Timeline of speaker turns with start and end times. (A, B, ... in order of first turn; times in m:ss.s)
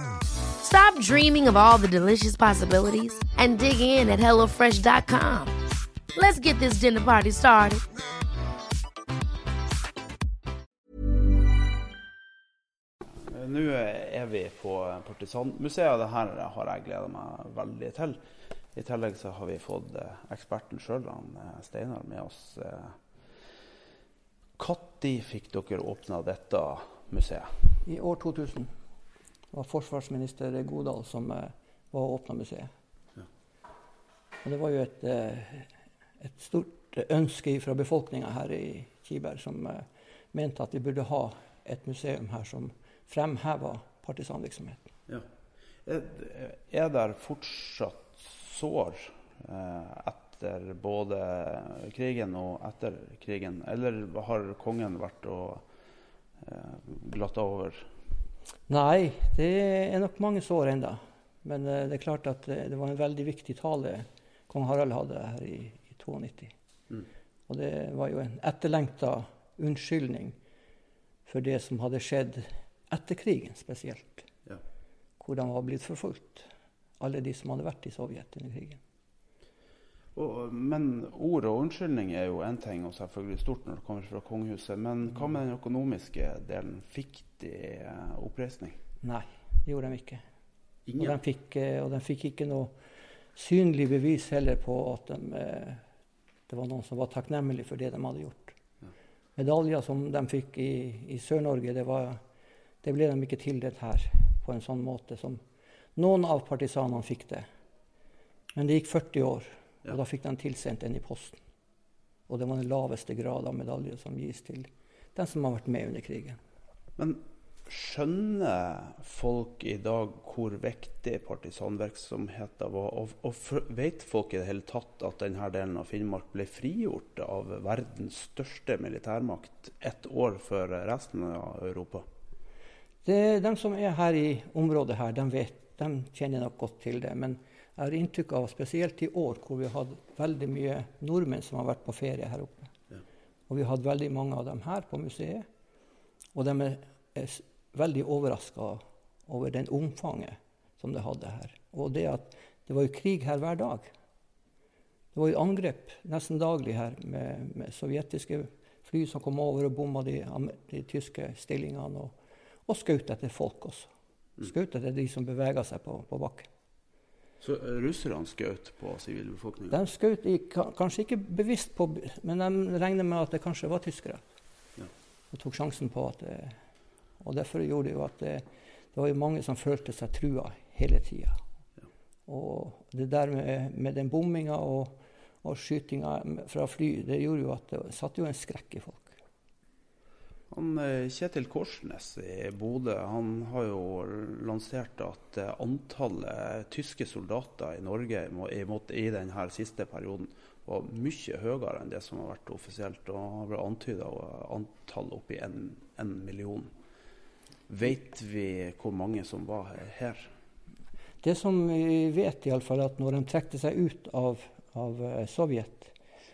0:00.6-0:05.5 A
0:06.1-0:07.8 A
0:13.1-0:18.2 B
0:18.7-0:23.0 B
0:24.6-0:27.6 B
0:27.8-0:28.7 C
0:29.5-0:32.7 C
0:34.4-0:44.9 C
0:45.8-0:55.6 B
0:56.4-0:57.9 B
0:58.7-1:06.5 C
1:07.5-1:10.4 C
1:11.2-1:14.3 C
1:15.2-1:16.5 C
1:17.0-1:18.8 C
1:20.1-1:28.8 B
1:29.0-1:30.2 C
1:30.8-1:31.2 B
1:31.0-1:32.8 C
1:33.3-1:35.8 C
1:36.5-1:38.6 C
1:39.4-1:42.2 C
1:42.8-1:45.4 C
1:46.0-1:47.5 C
1:48.6-1:51.4 C
1:52.3-1:56.4 C
1:57.0-2:12.1 B
2:13.0-2:22.7 C
2:23.5-2:25.4 C
2:26.3-2:33.9 C
2:35.1-2:42.1 C
2:42.7-2:46.5 C
2:47.4-2:49.8 B
2:49.7-2:54.3 C
2:55.3-2:56.6 C
2:57.2-3:01.4 C
3:02.3-3:09.1 C
3:10.5-3:26.7 B
3:27.7-3:30.3 B
3:31.2-3:35.9 C